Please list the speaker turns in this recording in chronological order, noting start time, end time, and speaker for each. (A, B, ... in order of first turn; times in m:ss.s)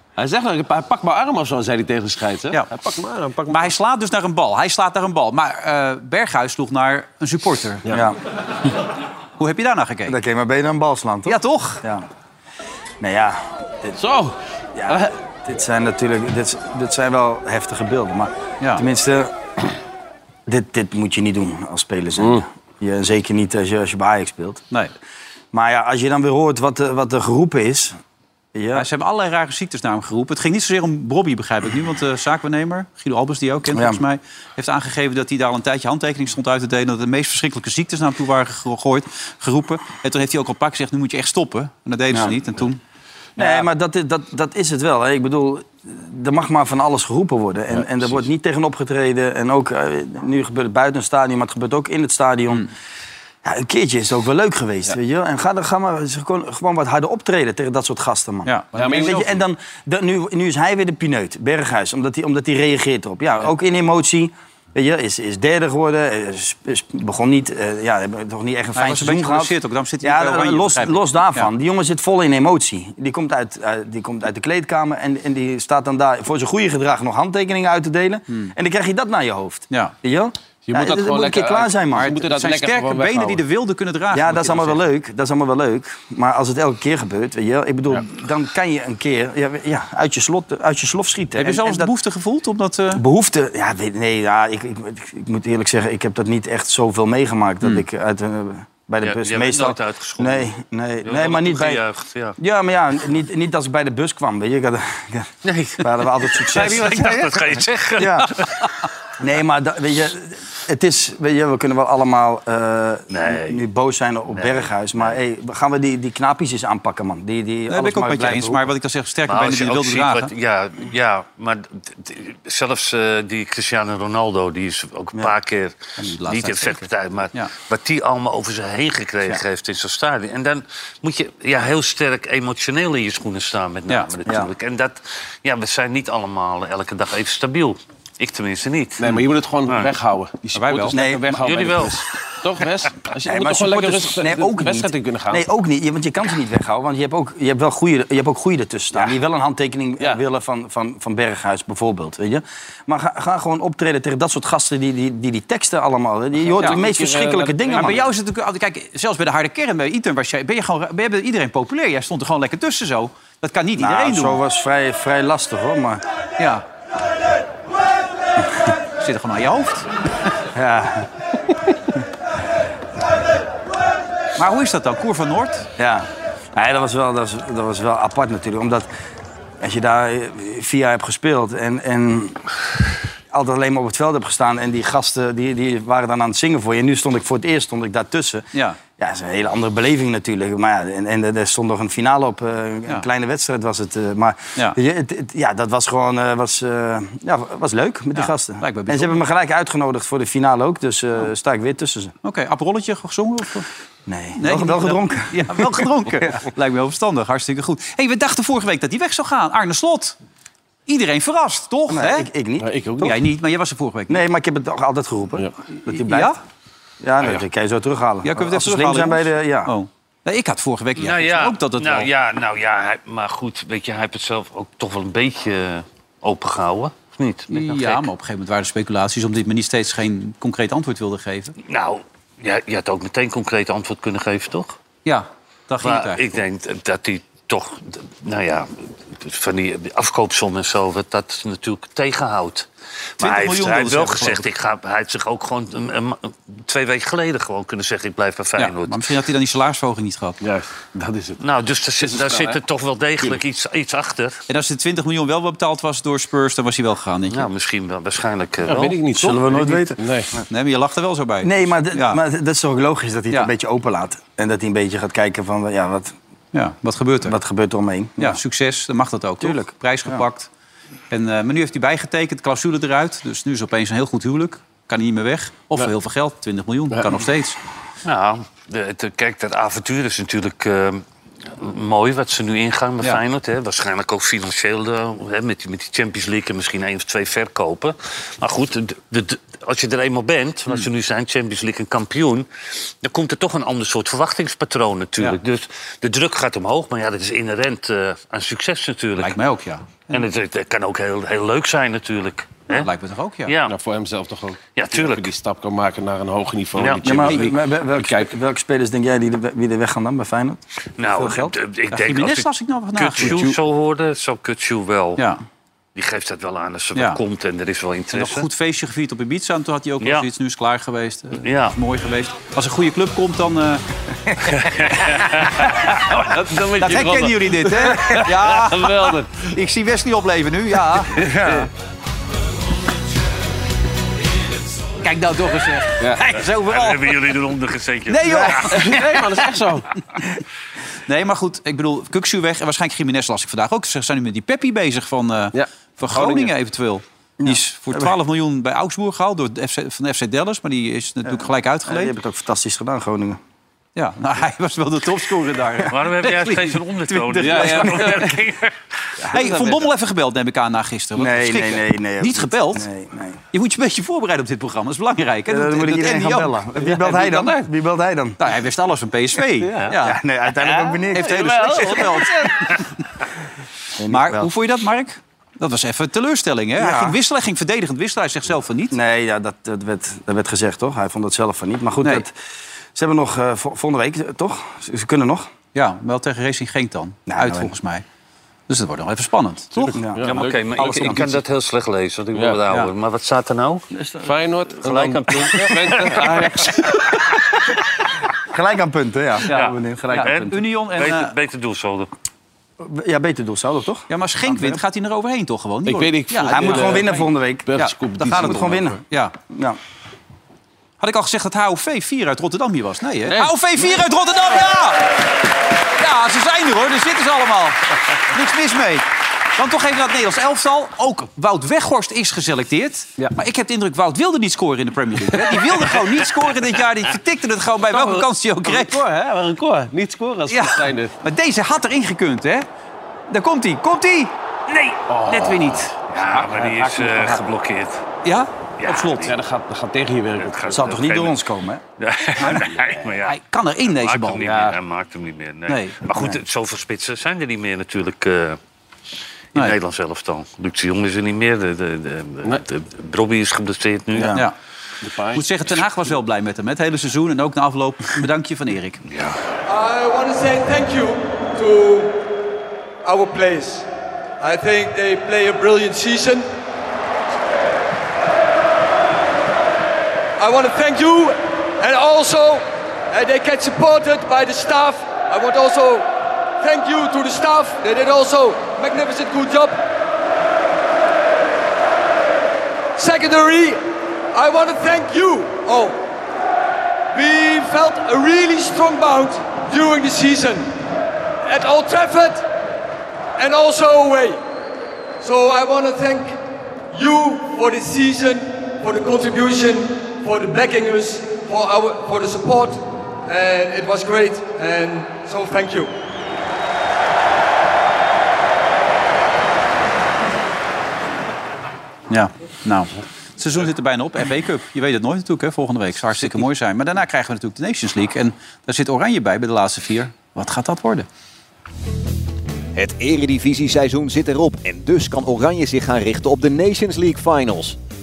0:00.2-0:03.7 A
0:03.5-0:07.9 B
0:07.9-0:08.2 C
0:09.4-0:10.2 B
0:10.1-0:12.0 C
0:11.3-0:11.8 B
0:13.0-0:14.0 C
0:14.0-0:14.4 A
0:14.8-0:19.4 C
0:20.5-0:24.6 C
0:22.2-0:22.4 A
0:25.5-0:28.0 C
0:28.5-0:28.9 C
0:28.7-0:42.8 B
0:33.7-0:34.0 C
0:43.4-0:43.7 B
0:43.4-0:52.7 C
0:53.4-1:22.1 C
0:58.4-0:59.3 B
0:58.8-0:59.3 A
1:08.8-1:11.5 B
1:20.7-1:23.4 A
1:22.0-1:24.8 B
1:24.1-1:31.9 C
1:31.4-1:33.0 B
1:32.9-1:41.8 C
1:39.0-1:40.5 D
1:41.0-1:42.4 D
1:42.4-1:47.4 C
1:45.4-1:48.6 D
1:48.0-1:48.3 C
1:48.0-1:48.3 B
1:49.2-1:58.6 C
1:53.1-1:53.6 D
1:54.3-1:55.2 D
1:57.7-2:00.3 B
1:59.3-2:19.0 D
2:06.0-2:07.5 B
2:19.0-2:25.5 A
2:20.5-2:21.0 B
2:20.9-2:21.6 C
2:21.4-2:22.0 D
2:23.3-2:38.0 C
2:36.4-2:38.0 A
2:36.6-2:36.8 B
2:37.7-2:44.4 B
2:43.8-2:46.0 C
2:46.4-2:46.6 B
2:49.0-2:49.9 B
2:50.5-2:51.1 C
2:54.4-2:55.7 B
2:55.8-2:58.9 C
2:59.6-3:02.4 C
3:03.3-3:08.5 C
3:08.5-3:08.8 B
3:09.0-3:22.1 C
3:18.1-3:19.2 B
3:22.2-3:23.7 B
3:24.1-3:25.9 C
3:24.4-3:30.2 B
3:30.9-3:32.3 B
3:31.9-3:33.2 C
3:32.6-3:33.2 A
3:33.0-3:34.2 B
3:34.1-3:36.4 C
3:35.9-3:36.4 B
3:37.0-3:39.7 C
3:38.2-3:42.1 B
3:41.0-3:48.1 D
3:47.5-3:51.6 B
3:51.6-3:54.8 D
3:55.0-3:56.4 B
3:55.8-4:02.7 D
4:03.2-4:09.1 D
4:03.2-4:04.5 B
4:08.6-4:10.4 B
4:10.4-4:11.4 A
4:11.4-4:14.4 D
4:12.0-4:12.6 A
4:14.5-4:17.5 B
4:17.3-4:19.0 D
4:18.7-4:20.3 A
4:19.2-4:20.4 C
4:20.5-4:22.2 B
4:21.4-4:26.1 C
4:26.5-4:27.4 B
4:27.2-4:28.4 C
4:28.2-4:30.5 B
4:29.4-4:30.2 C
4:31.1-4:37.6 B
4:38.0-4:41.0 D
4:41.6-4:52.5 D
4:53.0-4:59.4 D
4:59.2-5:00.2 B
5:00.1-5:02.9 D
5:02.7-5:03.6 B
5:03.5-5:03.7 D
5:03.7-5:08.3 A
5:04.8-5:05.3 D
5:06.8-5:07.0 D
5:07.0-5:11.6 C
5:11.0-5:15.3 D
5:11.9-5:13.6 B
5:16.0-5:18.5 D
5:18.1-5:23.8 B
5:20.0-5:20.3 D
5:21.4-5:21.8 D
5:24.8-5:25.4 D
5:25.9-5:29.5 A
5:26.8-5:31.7 B
5:31.2-5:31.6 A
5:35.0-5:37.3 B
5:36.3-5:38.8 D
5:38.1-5:39.4 B
5:38.7-5:39.9 A
5:41.1-5:52.1 B
5:45.5-5:46.5 A
5:47.4-5:48.1 C
5:51.3-5:53.4 C
5:54.0-5:58.4 B
5:55.9-5:58.7 D
5:57.4-5:58.3 A
5:59.2-5:59.9 C
5:59.3-6:02.9 B
6:01.2-6:03.4 C
6:03.5-6:06.6 B
6:05.5-6:08.4 C
6:06.8-6:07.7 A
6:08.4-6:10.2 B
6:09.6-6:10.0 A
6:10.0-6:12.2 C
6:10.6-6:12.7 A
6:11.1-6:12.9 B
6:14.0-6:14.5 C
6:14.1-6:19.0 B
6:16.8-6:17.2 C
6:18.9-6:22.3 C
6:23.0-6:25.5 C
6:25.7-6:28.0 B
6:27.3-6:27.7 C
6:28.7-6:31.3 B
6:29.8-6:30.6 A
6:29.9-6:30.2 C
6:30.2-6:33.8 D
6:30.8-6:31.2 C
6:33.9-6:34.3 C
6:34.2-6:37.0 A
6:34.8-6:36.4 D
6:38.5-6:40.5 C
6:39.5-6:41.3 B
6:39.5-6:42.1 D
6:42.8-6:44.8 C
6:44.1-6:49.4 B
6:45.9-6:48.9 A
6:46.5-6:47.6 C
6:48.2-6:49.0 C
6:49.5-6:49.8 C
6:51.0-6:55.1 B
6:53.3-6:54.0 A
6:56.0-7:09.0 B
7:05.3-7:06.3 A
7:07.9-7:11.1 A
7:10.5-7:12.7 B
7:13.3-7:14.4 B
7:15.1-7:17.4 A
7:15.2-7:15.9 B
7:16.1-7:18.0 D
7:18.2-7:19.3 B
7:18.8-7:19.3 D
7:19.2-7:20.9 A
7:20.4-7:21.4 D
7:20.7-7:21.8 C
7:22.0-7:23.4 D
7:22.4-7:24.6 B
7:24.0-7:28.6 D
7:24.4-7:24.8 A
7:25.7-7:26.0 B
7:29.5-7:34.3 D
7:34.2-7:34.4 C
7:35.0-7:35.5 A
7:35.3-7:39.0 B
7:39.1-7:39.4 D
7:39.7-7:42.2 E
7:43.0-7:43.9 E
7:44.4-7:46.5 E
7:50.4-7:56.1 E
7:56.6-7:59.8 E
8:03.0-8:06.0 E
8:07.1-8:10.7 E
8:11.5-8:12.4 E
8:13.4-8:14.4 E
8:15.2-8:16.4 E
8:16.9-8:25.9 E
8:32.1-8:41.1 B
8:42.8-8:47.8 F